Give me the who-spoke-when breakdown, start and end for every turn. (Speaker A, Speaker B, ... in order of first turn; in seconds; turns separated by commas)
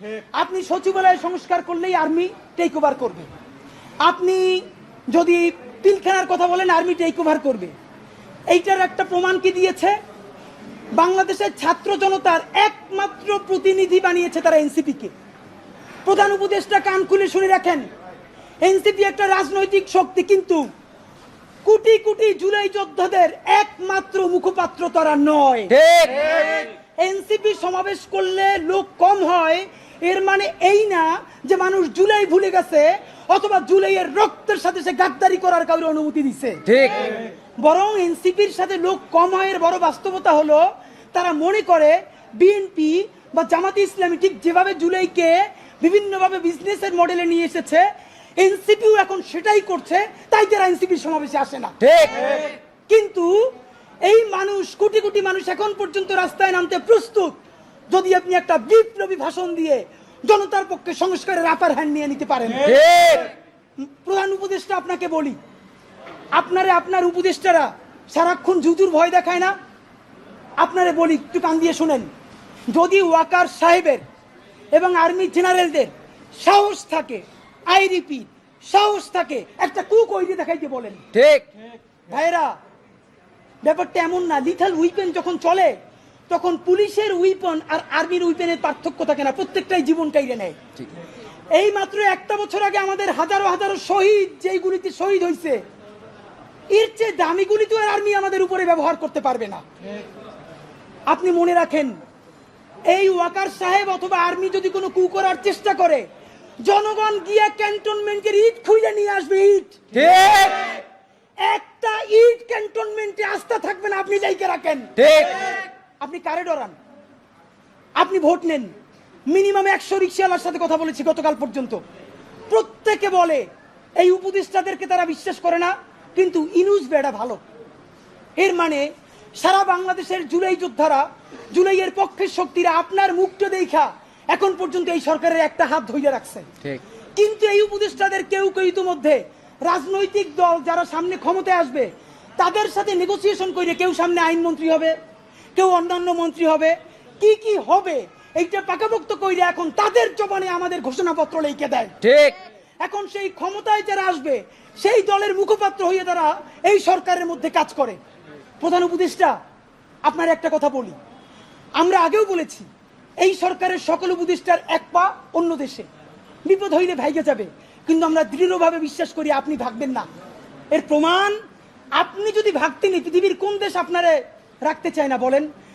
Speaker A: 0.3-3.3, Speaker A: 4.0-7.7, Speaker A: 8.5-10.0, Speaker A: 11.0-15.1, Speaker A: 16.1-17.9, Speaker A: 18.6-20.7, Speaker A: 21.6-25.8, Speaker B: 25.8-26.6, Speaker A: 26.5-53.5, Speaker B: 36.7-37.2, Speaker B: 51.8-52.4, Speaker A: 54.0-57.4, Speaker A: 57.9-63.1, Speaker B: 62.7-63.3, Speaker A: 63.8-65.4, Speaker A: 66.3-69.5, Speaker A: 70.6-72.1, Speaker A: 72.7-74.0, Speaker A: 74.7-81.1, Speaker B: 81.2-81.4, Speaker A: 82.1-82.6, Speaker A: 83.6-85.8, Speaker A: 86.3-90.6, Speaker A: 91.5-95.6, Speaker A: 96.7-99.6, Speaker A: 101.1-102.0, Speaker A: 102.9-106.1, Speaker A: 106.6-110.8, Speaker B: 110.0-110.5, Speaker A: 111.4-116.8, Speaker B: 115.0-115.4, Speaker A: 118.0-118.7, Speaker A: 119.3-121.8, Speaker A: 122.5-123.5, Speaker A: 124.0-127.4, Speaker A: 128.4-136.6, Speaker A: 137.2-144.9, Speaker A: 145.6-152.0, Speaker B: 152.1-152.4, Speaker A: 152.8-158.0, Speaker A: 158.6-159.4, Speaker A: 160.1-161.0, Speaker A: 161.8-162.7, Speaker A: 163.2-165.9, Speaker A: 166.5-170.1, Speaker A: 170.7-171.4, Speaker A: 171.9-175.5